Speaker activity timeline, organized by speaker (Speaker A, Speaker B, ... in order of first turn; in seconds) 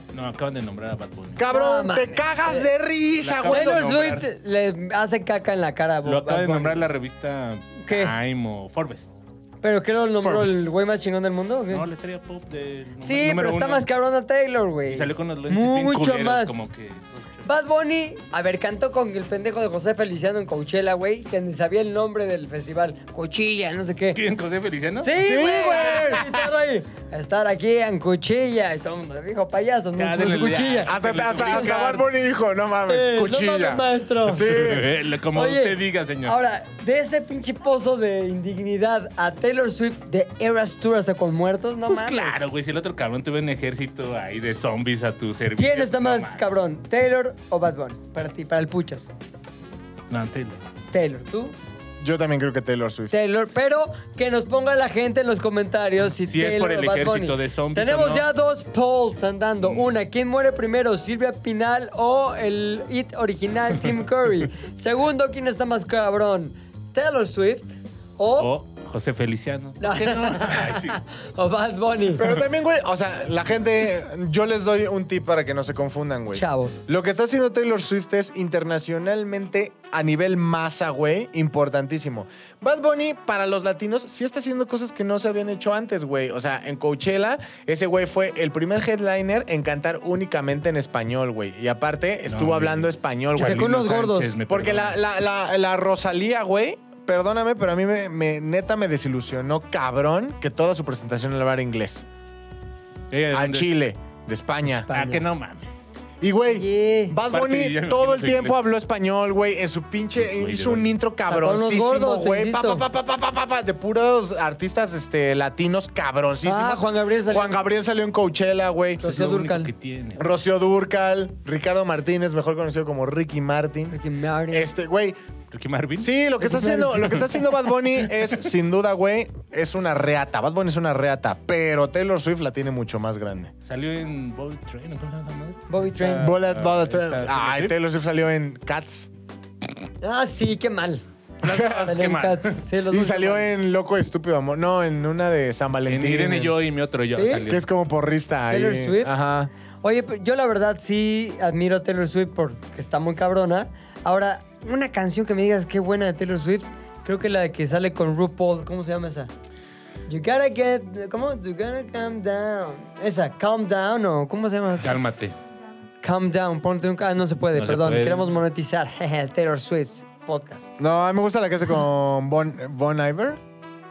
Speaker A: 0.1-1.4, 3.2-4.2, 6.0-9.1, 10.2-10.7, 11.7-13.8, 14.9-17.5, 24.1-26.5, 30.0-32.1, 34.4-36.4, 41.9-46.5, 50.1-50.6, 56.2-58.3, 59.6-59.9, 68.4-71.0, 92.3-95.0, 103.1-103.7, 104.9-105.7, 107.3-108.6, 110.2-110.9, 119.0-120.3, 125.5-126.1, 133.7-137.8, 141.4-142.6, 145.9-147.7, 164.8-165.3, 167.6-168.4
Speaker B: 1.4-3.9, 25.2-26.3, 30.9-34.9, 52.0-53.2, 72.1-93.9, 94.5-102.0, 103.3-104.9, 106.2-119.2, 120.2-124.0, 124.5-125.2, 126.0-133.5, 136.2-139.1, 141.4-141.8, 142.9-146.6, 147.5-149.5, 170.8-173.4
Speaker C: 1.5-2.7, 3.5-6.8, 7.8-8.1, 9.6-11.9, 13.0-16.6, 17.5-24.2, 25.0-31.8, 32.9-34.6, 35.3-42.4, 45.6-49.1, 50.9-51.5, 53.1-68.5, 69.8-72.3, 76.3-76.8, 93.4-94.3, 104.9-105.2, 106.5-107.2, 111.2-112.8, 116.4-117.5, 119.0-119.7, 123.9-124.7, 126.4-127.3, 135.7-136.3, 140.0-141.0, 141.9-143.5, 147.1-147.4, 148.5-149.2, 149.8-159.3, 160.1-165.1, 166.0-170.8